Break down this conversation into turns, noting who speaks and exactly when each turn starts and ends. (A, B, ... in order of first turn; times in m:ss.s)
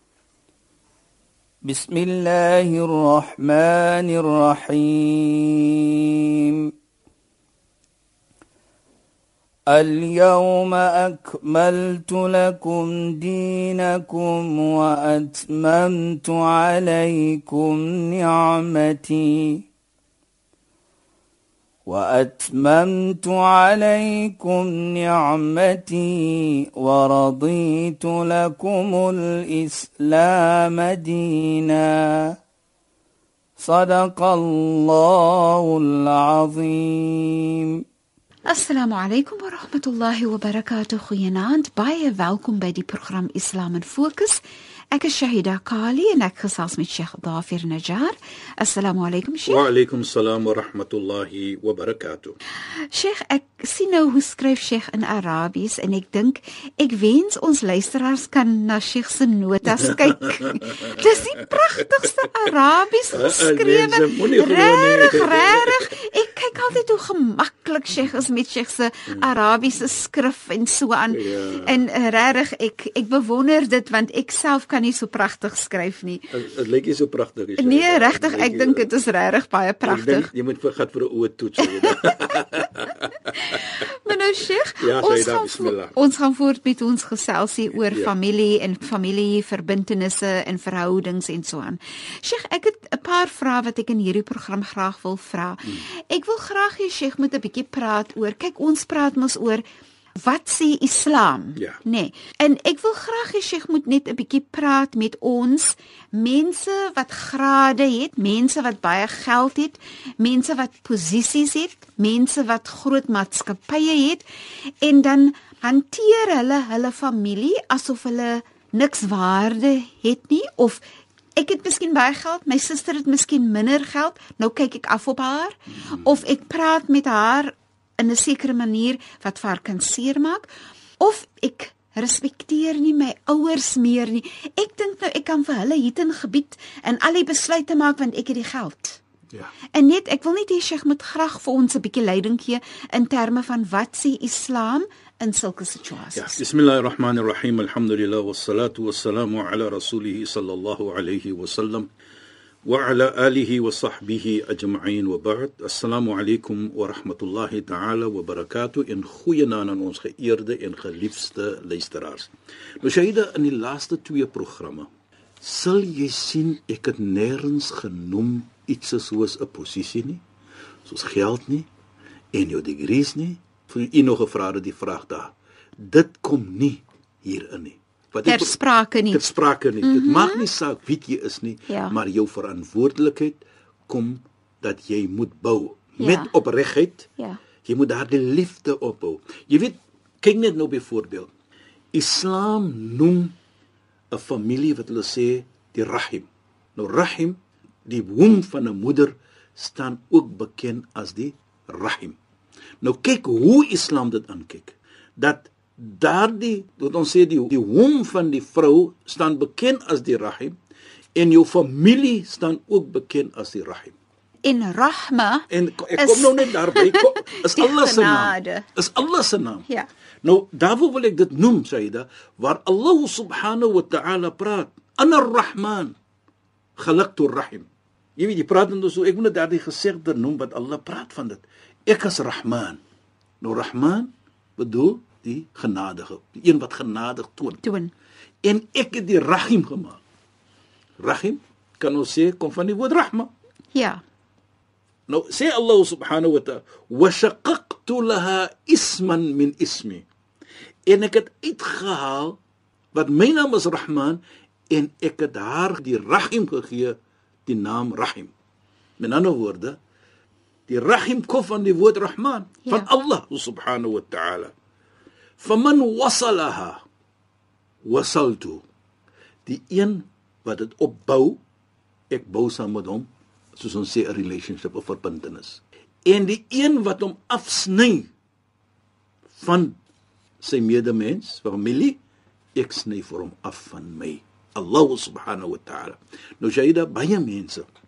0:01.6-0:06.7 A
0:09.7-0:19.6 A
0:21.9-0:32.3 A
0:33.6-0:37.8 A
0:38.5-0:44.4 B
0:44.9-0:49.6 B
0:49.4-0:52.4 C
0:52.9-1:16.2 B
0:59.7-1:01.0 C
1:03.1-1:06.0 C
1:11.1-1:11.8 C
1:16.3-1:18.9 C
1:17.6-1:20.3 B
1:19.8-1:23.6 C
1:21.6-1:21.9 B
1:23.5-1:39.6 B
1:24.8-1:25.9 C
1:40.2-1:54.2 B
1:54.8-2:00.8 B
2:01.4-2:19.0 B
2:19.7-2:26.4 B
2:26.1-2:31.9 C
2:32.6-2:44.9 C
2:45.4-2:50.2 C
2:50.8-2:51.7 C
2:52.3-2:58.6 C
2:58.2-2:59.3 B
2:59.1-3:07.1 C
2:59.8-3:00.4 B
3:01.7-3:01.9 B
3:06.0-3:06.3 B
3:07.6-3:11.3 C
3:11.9-3:13.4 C
3:14.1-3:22.2 C
3:22.8-3:30.6 C
3:31.2-3:34.0 C
3:34.4-3:38.7 B
3:35.5-3:39.7 C
3:40.2-3:45.9 C
3:46.8-3:52.8 C
3:53.4-3:57.6 C
3:57.6-3:57.9 B
3:58.4-4:00.0 C
4:01.0-4:03.3 C
4:03.7-4:04.0 B
4:05.1-4:10.0 C
4:10.9-4:12.4 C
4:12.9-4:18.3 C
4:19.0-4:19.8 C
4:20.7-4:24.5 C
4:25.4-4:26.8 C
4:27.8-4:28.6 C
4:29.4-4:31.4 C
4:32.1-4:38.1 C
4:39.3-4:39.8 C
4:40.4-4:42.0 C
4:42.5-4:47.7 C